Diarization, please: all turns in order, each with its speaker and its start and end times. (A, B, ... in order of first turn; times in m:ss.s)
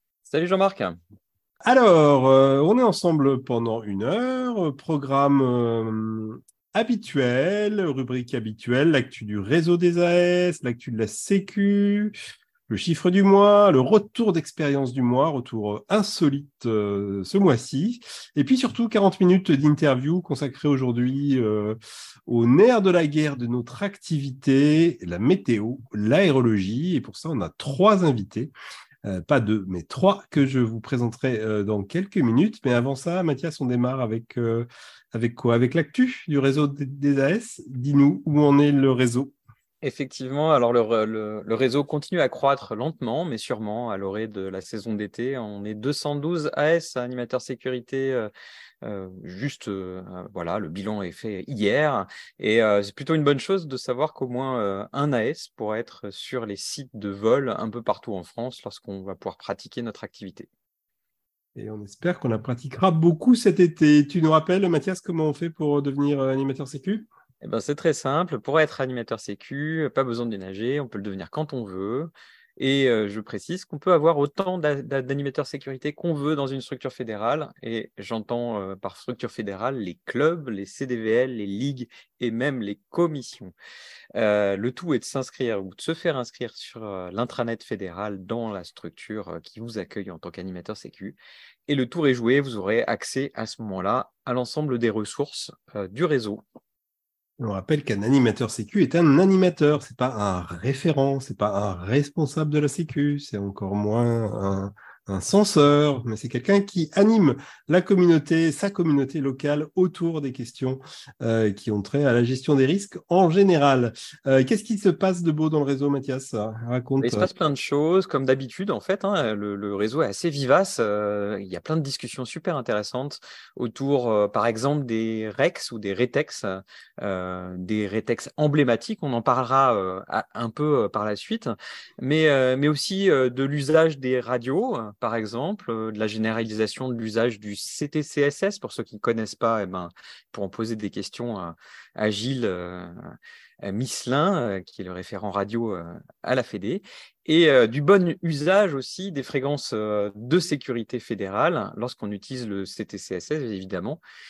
0:00.3-0:01.0 A
0:01.6-0:12.1 B
0:12.7-0:28.5 B
0:29.0-0:39.3 B
0:39.8-0:48.3 A
0:48.8-1:00.5 A
1:01.6-1:07.1 B
1:07.4-1:23.5 A
1:24.2-1:36.4 A
1:37.4-1:57.3 B
1:57.0-2:34.0 A